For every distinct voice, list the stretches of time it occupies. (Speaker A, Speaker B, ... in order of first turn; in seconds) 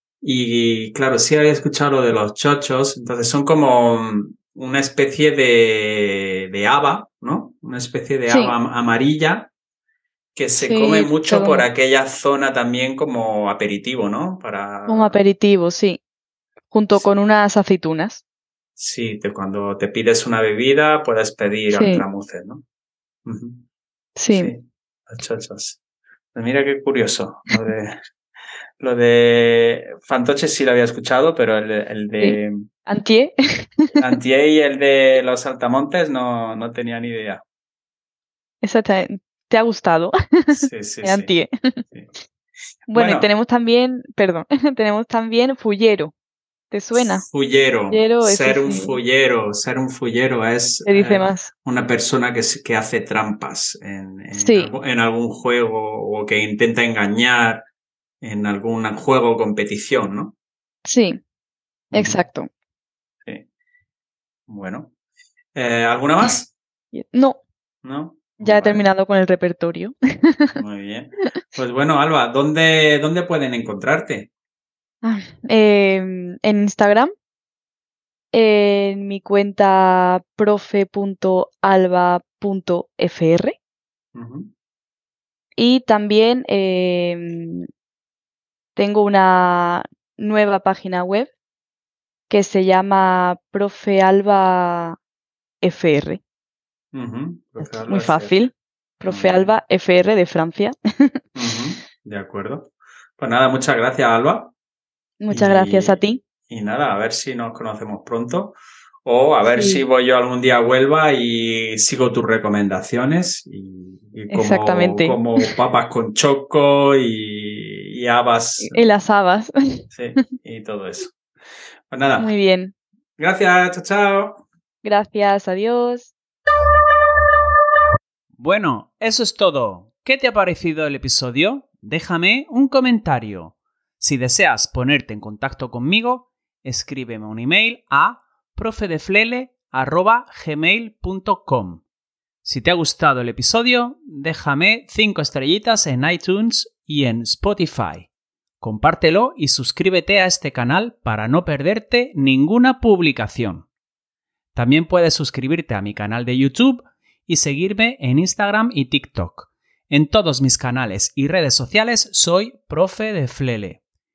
Speaker A: 0.2-9.5, 10.3-15.2, 18.8-22.6, 23.3-23.6, 24.3-25.8, 26.3-28.0, 28.8-32.6, 34.0-37.4, 40.5-41.3, 42.9-43.3, 46.9-57.6, 58.2-60.3, 61.9-62.2, 64.5-64.9, 65.5-66.5, 67.8-68.9, 70.6-74.3, 84.2-84.5, 96.9-98.4, 99.1-99.6, 101.3-104.5, 105.3-118.8, 119.9-121.2, 121.9-122.3, 123.2-124.4, 128.4-141.8, 142.4-148.1, 148.6-153.7, 154.6-163.8
Speaker B: 8.3-8.6, 10.6-11.7, 14.9-16.0, 16.7-18.2, 21.7-22.1, 24.2-24.5, 32.2-33.9, 38.6-41.8, 42.9-46.1, 46.7-47.2, 47.9-49.0, 50.9-51.5, 54.3-54.7, 60.9-61.2, 61.9-62.5, 66.9-67.4, 68.4-70.6, 75.0-77.1, 78.3-83.6, 85.6-87.7, 88.8-91.3, 92.3-95.0, 95.6-96.2, 97.6-101.1, 105.2-106.2, 109.4-109.8, 114.3-115.5, 118.6-120.2, 122.2-122.7, 124.8-126.1